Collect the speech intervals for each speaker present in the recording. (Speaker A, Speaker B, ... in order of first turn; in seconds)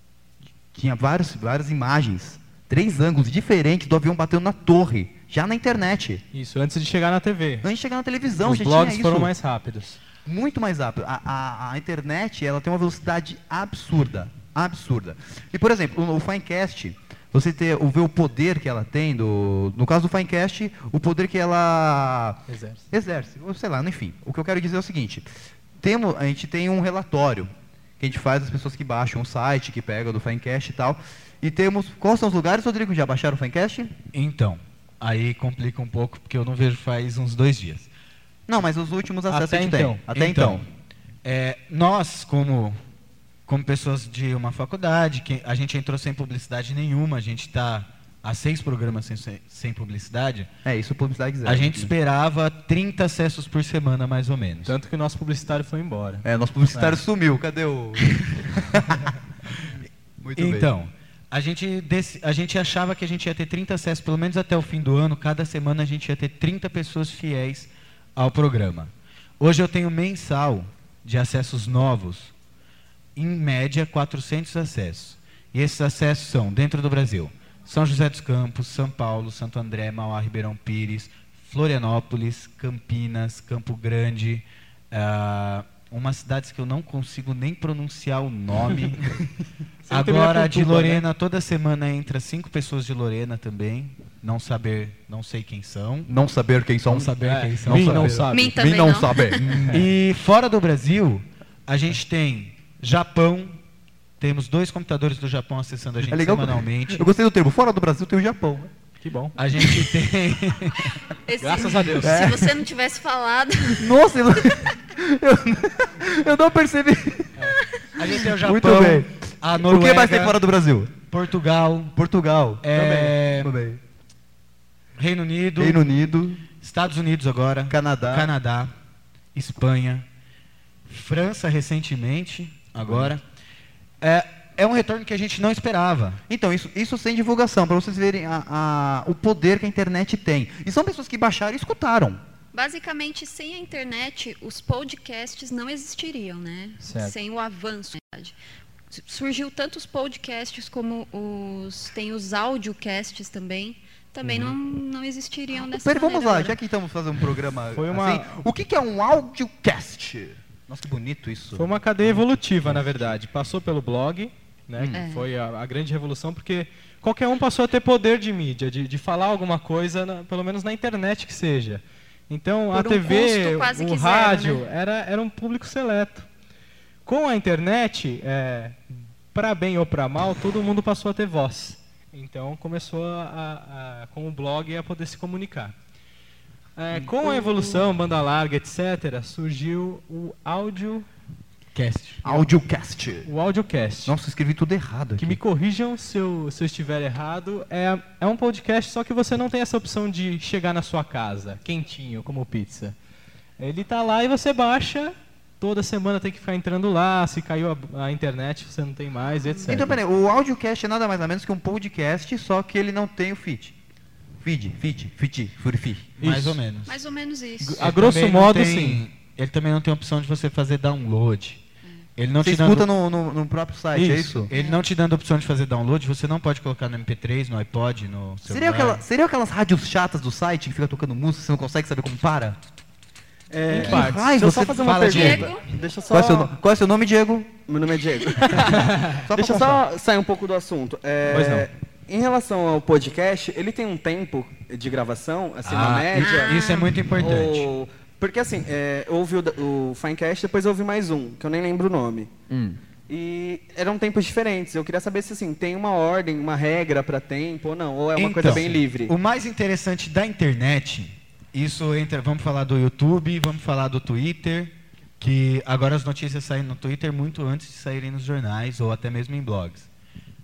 Speaker A: 0.7-6.2, 7.6-9.3, 10.2-25.3, 25.8-33.9, 38.5-40.6, 50.6-51.9, 56.2-58.1, 60.2-60.7, 96.1-99.9, 106.1-108.7, 112.0-112.6, 113.8-117.6, 118.1-120.9, 122.0-123.8, 125.6-126.4, 127.7-128.3, 132.8-133.2, 136.3-142.2, 154.3-154.5, 155.7-163.2, 164.8-165.1, 187.0-187.5, 192.2-193.3, 194.1-195.4, 209.7-213.8, 214.4-216.1, 222.4-224.5, 228.5-232.6, 233.7-235.5, 236.1-237.6, 238.5-239.8, 252.5-252.8
Speaker B: 6.3-7.7, 8.4-10.0, 22.5-22.8, 39.3-40.0, 54.7-57.0, 89.8-91.0, 97.2-98.9, 99.5-99.8, 109.0-109.4, 111.4-112.3, 146.8-147.2, 157.7-158.3, 161.5-176.3, 177.1-185.8, 186.8-191.1, 193.2-194.2, 195.2-203.0, 203.6-210.0, 216.2-216.6, 217.6-219.0, 223.9-224.5, 233.7-234.5, 238.8-239.2, 241.3-241.7
Speaker C: 34.1-37.9, 40.1-40.6, 41.2-42.8, 43.5-50.5, 51.5-54.7, 60.4-72.3, 73.2-89.2, 89.9-96.1, 96.9-98.3, 99.7-103.6, 104.2-107.1, 109.4-111.0, 118.0-120.4, 121.0-122.0, 122.6-123.6, 125.0-125.8, 126.6-128.7, 129.3-130.1, 130.9-133.2, 134.0-136.2, 191.8-192.2, 216.2-217.0, 217.8-221.6, 222.2-222.9, 224.5-229.0, 234.5-235.5, 245.7-247.7, 258.2-269.9
Speaker D: 98.3-99.4, 111.3-113.9, 142.5-148.3, 148.9-156.6, 164.9-165.3, 172.7-174.6, 209.5-209.8, 216.9-217.9, 224.5-224.8, 235.1-235.6, 246.2-246.9
Speaker E: 233.5-236.5, 237.7-252.3, 253.1-259.1